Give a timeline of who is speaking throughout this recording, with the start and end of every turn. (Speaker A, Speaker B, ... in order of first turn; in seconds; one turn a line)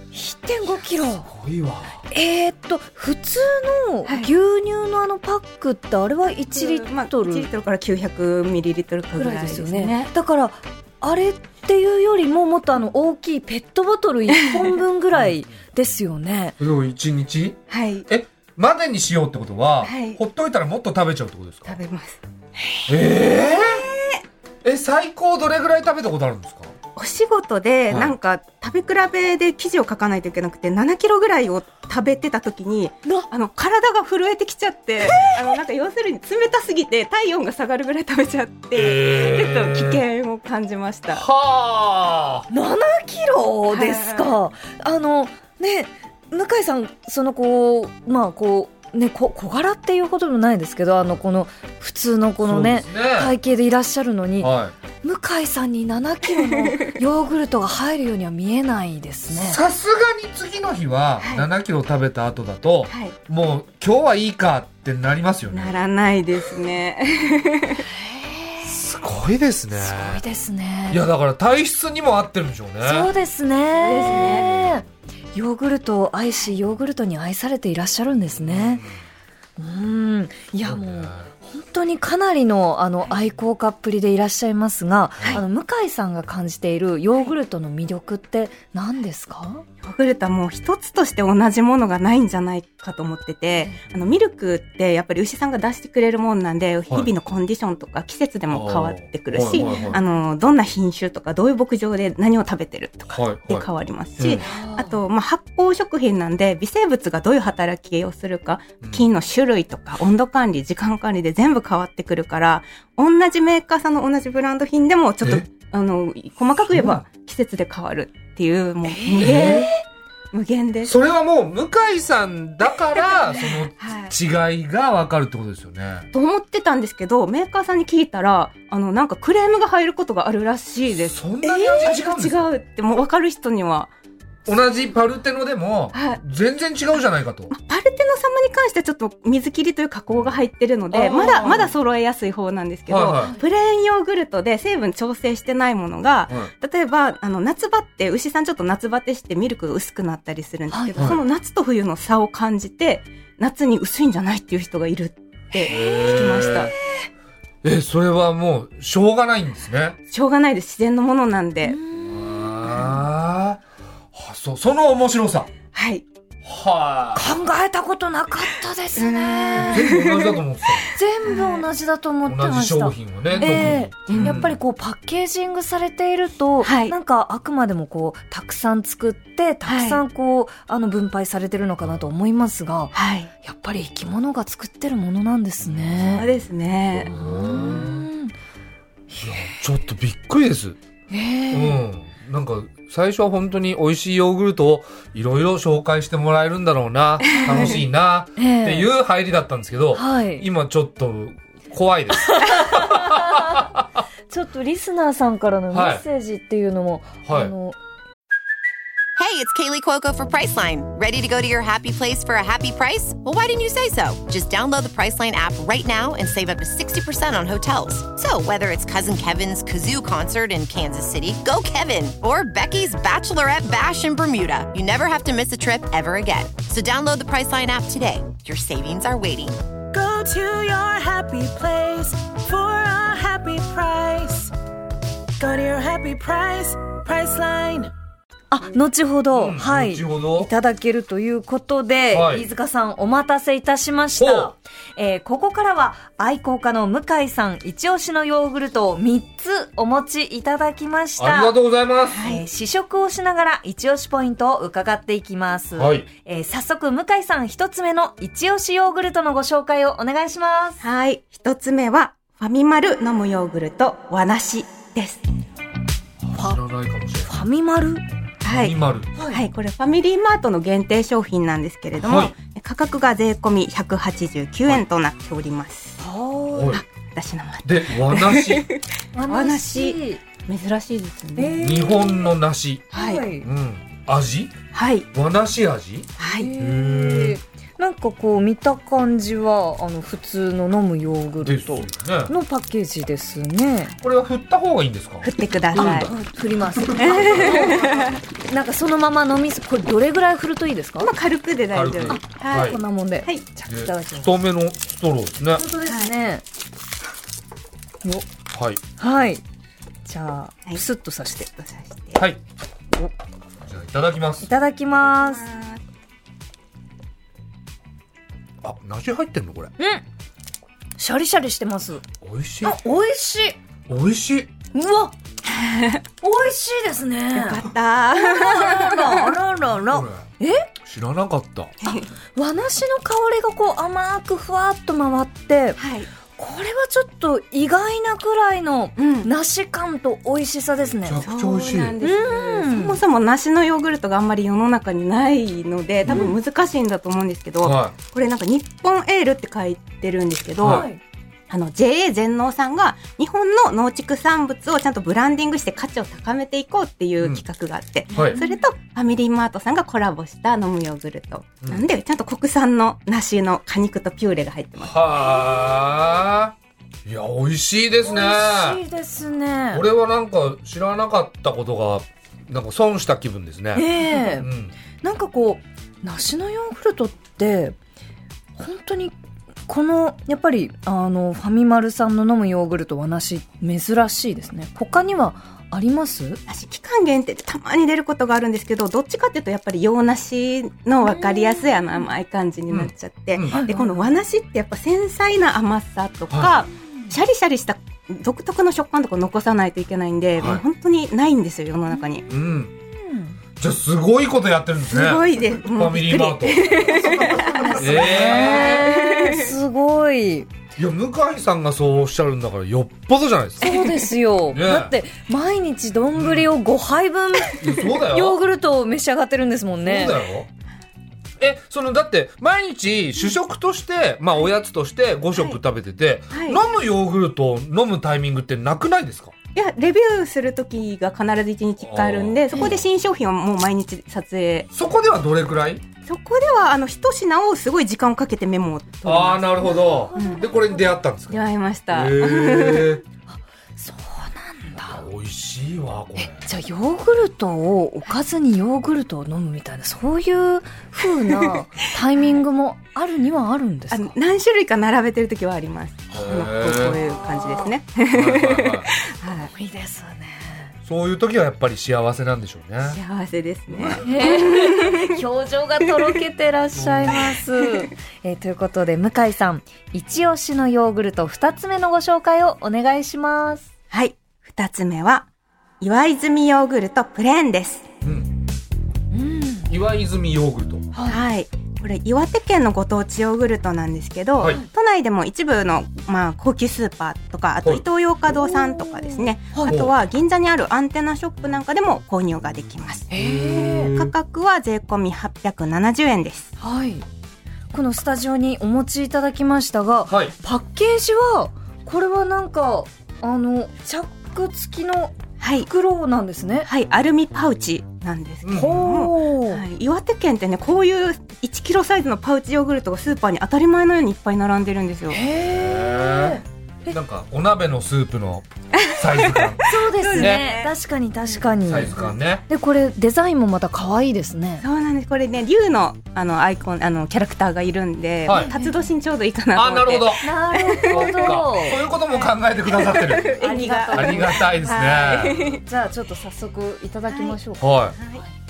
Speaker A: 0.1-1.3
Speaker B: 1.3-2.0
Speaker A: 2.1-7.5
Speaker C: 6.5-10.1
Speaker A: 9.2-16.6
Speaker B: 16.6-21.8
Speaker C: 17.7-18.1
Speaker C: 19.8-20.2
Speaker C: 21.7-22.9
Speaker B: 22.9-23.9
Speaker C: 23.4-24.2
Speaker B: 24.6-26.7
Speaker C: 27.0-41.2
Speaker B: 27.9-28.1
Speaker B: 35.0-35.4
Speaker B: 38.8-40.0
Speaker B: 41.1-42.5
Speaker A: 42.5-54.5
Speaker C: 43.7-44.3
Speaker B: 52.4-53.3
Speaker B: 54.4-54.7
Speaker A: 55.0-59.6
Speaker C: 56.5-56.9
Speaker B: 59.3-65.8
Speaker C: 61.2-61.5
Speaker C: 62.9-63.2
Speaker C: 65.5-67.9
Speaker A: 67.9-68.8
Speaker B: 68.7-70.2
Speaker A: 69.8-71.0
Speaker B: 70.9-73.1
Speaker A: 72.8-78.8
Speaker C: 73.8-74.6
Speaker B: 78.4-78.9
Speaker A: 79.6-89.6
Speaker B: 80.6-81.3
Speaker C: 89.8-119.7
Speaker B: 98.5-100.0
Speaker A: 99.5-100.0
Speaker B: 103.1-103.7
Speaker A: 104.4-105.0
Speaker B: 116.7-117.0
Speaker A: 118.9-119.7
Speaker B: 119.2-119.7
Speaker C: 120.3-120.9
Speaker B: 120.8-126.1
Speaker C: 123.3-124.1
Speaker C: 126.1-133.9
Speaker B: 130.9-132.5
Speaker B: 134.5-137.5
Speaker C: 135.9-136.2
Speaker C: 137.5-156.7
Speaker B: 140.9-141.7
Speaker A: 141.2-141.6
Speaker B: 142.9-143.3
Speaker A: 150.7-151.1
Speaker B: 151.0-151.2
Speaker B: 155.7-156.7
Speaker A: 155.7-156.0
Speaker B: 157.6-160.0
Speaker C: 160.1-161.8
Speaker A: 161.6-162.9
Speaker B: 162.1-165.5
Speaker C: 165.7-166.1
Speaker B: 166.4-167.3
Speaker A: 167.2-169.9
Speaker C: 169.0-170.4
Speaker B: 169.7-170.9
Speaker A: 170.9-186.3
Speaker C: 171.2-171.7
Speaker B: 172.2-174.6
Speaker C: 173.3-174.4
Speaker C: 176.6-176.9
Speaker C: 179.7-180.0
Speaker B: 181.8-182.1
Speaker C: 182.9-183.3
Speaker B: 185.6-186.3
Speaker C: 186.2-187.1
Speaker B: 186.9-188.1
Speaker A: 187.1-188.3
Speaker A: 189.1-189.6
Speaker B: 189.2-190.8
Speaker A: 191.1-191.8
Speaker B: 191.5-203.9
Speaker C: 197.3-197.8
Speaker A: 197.3-197.8
Speaker A: 198.4-198.9
Speaker A: 199.9-200.5
Speaker A: 202.2-203.7
Speaker A: 204.3-207.8
Speaker B: 205.7-206.0
Speaker B: 207.2-207.5
Speaker D: 209.2-229.6
Speaker E: 229.9-234.5
Speaker E: 235.4-237.9
Speaker A: 238.5-251.6
Speaker B: 239.3-240.5
Speaker B: 242.1-242.5
Speaker B: 244.2-244.5
Speaker B: 251.2-252.3
Speaker C: 252.1-252.4
Speaker A: 252.2-260.8
Speaker B: 255.8-256.1
Speaker C: 260.8-265.2
Speaker B: 266.2-267.4
Speaker A: 266.3-266.6
Speaker A: 267.2-268.0
Speaker C: 268.4-268.8
Speaker B: 268.5-269.1
Speaker A: 269.2-269.4
Speaker C: 269.3-276.0
Speaker B: 272.0-272.3
Speaker A: 276.0-276.8
Speaker B: 276.5-276.8
Speaker C: 276.7-281.6
Speaker B: 277.6-278.7
Speaker A: 279.1-280.2
Speaker A: 281.4-282.3
Speaker B: 281.6-284.6
Speaker C: 282.9-283.2
Speaker A: 282.9-283.5
Speaker C: 284.7-285.1
Speaker B: 285.1-287.4
Speaker C: 286.2-286.5
Speaker A: 286.2-293.9
Speaker B: 291.4-292.3
Speaker B: 294.0-296.1
Speaker C: 295.2-296.1
Speaker A: 295.7-301.1
Speaker B: 296.7-298.1
Speaker C: 296.9-298.2
Speaker C: 301.0-303.5
Speaker B: 301.7-302.8
Speaker A: 302.1-304.3
Speaker B: 303.7-305.6
Speaker A: 305.5-306.4
Speaker C: 305.9-306.1
Speaker B: 308.5-308.8
Speaker A: 309.0-309.4
Speaker A: 310.1-311.5
Speaker C: 311.6-312.2
Speaker B: 313.6-314.5
Speaker A: 314.4-315.4
Speaker C: 315.1-315.8
Speaker B: 318.6-319.7
Speaker A: 321.0-322.0
Speaker B: 322.2-322.8
Speaker A: 322.6-323.6
Speaker B: 323.9-324.5
Speaker A: 324.7-325.1
Speaker C: 325.4-326.0
Speaker A: 326.2-330.7
Speaker C: 327.3-329.3
Speaker B: 329.9-330.2
Speaker B: 330.8-331.7
Speaker C: 331.8-332.1
Speaker A: 331.9-335.8
Speaker C: 335.8-336.1
Speaker A: 336.3-341.2
Speaker C: 339.0-339.3
Speaker B: 341.0-342.0
Speaker C: 341.2-350.9
Speaker A: 342.0-343.0
Speaker A: 346.1-346.4
Speaker B: 347.6-347.9
Speaker B: 350.6-350.9
Speaker A: 350.7-351.0
Speaker C: 351.5-365.0
Speaker A: 358.1-358.6
Speaker B: 364.8-368.8
Speaker A: 368.0-369.9
Speaker B: 369.7-374.7
Speaker A: 373.8-374.5
Speaker A: 375.0-377.8
Speaker A: 378.6-379.1
Speaker A: 379.7-386.4
Speaker C: 386.5-402.3
Speaker A: 391.2-391.6
Speaker B: 392.7-393.6
Speaker A: 393.5-394.0
Speaker B: 396.3-396.6
Speaker B: 400.4-400.6
Speaker B: 402.3-402.7
Speaker A: 403.0-403.4
Speaker B: 403.6-408.9
Speaker C: 404.9-409.5
Speaker A: 406.8-410.5
Speaker B: 410.8-413.7
Speaker A: 413.6-420.2
Speaker C: 413.6-414.1
Speaker B: 414.5-415.0
Speaker B: 416.1-416.5
Speaker B: 417.6-418.4
Speaker B: 419.8-420.5
Speaker B: 421.4-429.3
Speaker C: 426.3-426.6
Speaker C: 429.6-434.7
Speaker B: 431.8-432.8
Speaker B: 434.7-435.8
Speaker C: 436.1-440.5
Speaker B: 439.0-443.0
Speaker A: 439.6-440.7
Speaker C: 441.3-443.0
Speaker A: 443.3-445.0
Speaker B: 444.9-446.5
Speaker A: 446.2-454.1
Speaker C: 453.9-459.5
Speaker B: 456.1-457.0
Speaker A: 457.2-457.7
Speaker B: 458.1-458.9
Speaker A: 459.5-460.7
Speaker B: 460.9-463.0
Speaker C: 462.8-465.2
Speaker B: 463.7-464.1
Speaker A: 464.0-473.7
Speaker B: 466.8-467.4
Speaker C: 473.9-475.3
Speaker C: 475.8-477.9
Speaker B: 478.0-478.3
Speaker A: 479.1-479.7
Speaker B: 479.7-480.9
Speaker A: 480.9-481.2
Speaker C: 481.1-493.1
Speaker B: 484.4-484.6
Speaker A: 488.4-489.8
Speaker B: 489.7-490.0
Speaker A: 493.1-493.9
Speaker B: 493.1-494.1
Speaker C: 493.9-496.5
Speaker A: 496.6-497.1
Speaker A: 497.7-506.7
Speaker B: 500.1-500.3
Speaker C: 505.4-505.7
Speaker C: 506.6-515.2
Speaker B: 508.4-508.9
Speaker A: 508.5-509.6
Speaker A: 515.1-517.0
Speaker B: 515.5-520.5
Speaker C: 518.7-520.7
Speaker A: 519.7-522.0
Speaker B: 521.7-522.4
Speaker C: 521.7-522.1
Speaker A: 522.5-524.6
Speaker C: 524.6-531.4
Speaker B: 528.2-528.5
Speaker A: 528.3-528.7
Speaker B: 529.5-530.3
Speaker A: 530.2-531.8
Speaker B: 530.9-533.4
Speaker C: 532.1-535.6
Speaker A: 533.3-534.6
Speaker B: 533.9-535.6
Speaker A: 535.6-538.3
Speaker C: 537.1-537.4
Speaker B: 537.6-538.0
Speaker C: 538.0-538.2